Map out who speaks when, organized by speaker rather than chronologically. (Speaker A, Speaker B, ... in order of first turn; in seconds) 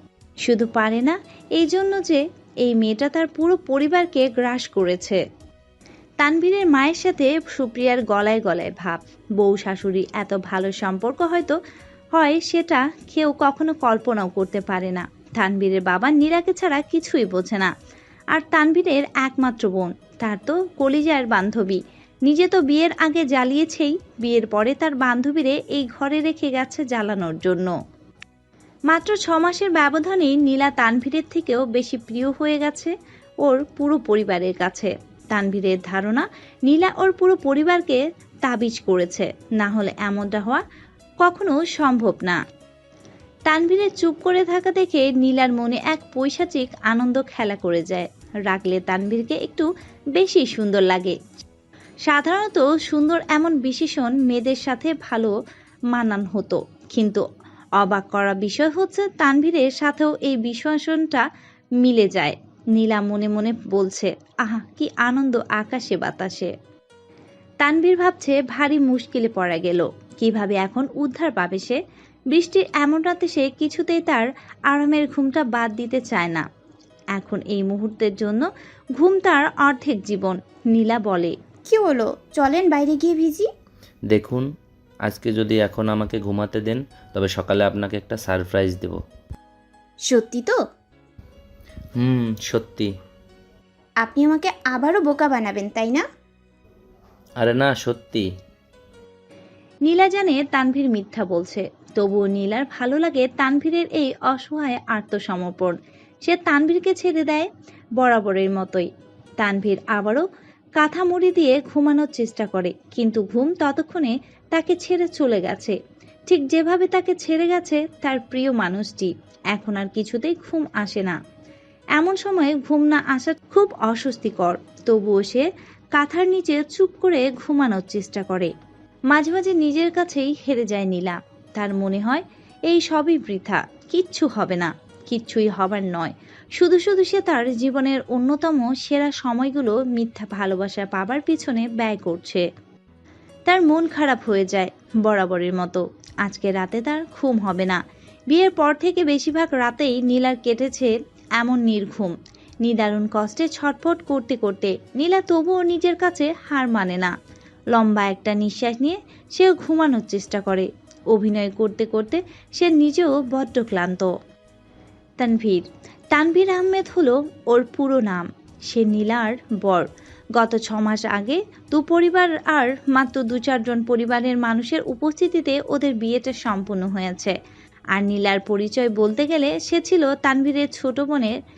Speaker A: 0.4-5.2, 6.2-11.6, 12.1-17.7, 18.3-27.7, 28.9-40.6, 41.2-42.4, 43.5-51.2, 52.0-55.3, 55.9-57.2, 57.8-61.2, 61.8-66.5, 67.6-71.8, 72.3-76.4, 77.1-81.3, 99.8-108.9, 109.4-110.2, 110.8-121.2, 122.0-128.5, 129.1-142.5, 143.5-157.1, 157.7-164.1, 165.2-177.3, 177.9-181.3
Speaker B: 81.7-83.5, 90.1-90.6, 94.0-96.0
Speaker C: 84.1-84.5, 85.0-89.0, 92.0-92.9, 97.4-98.2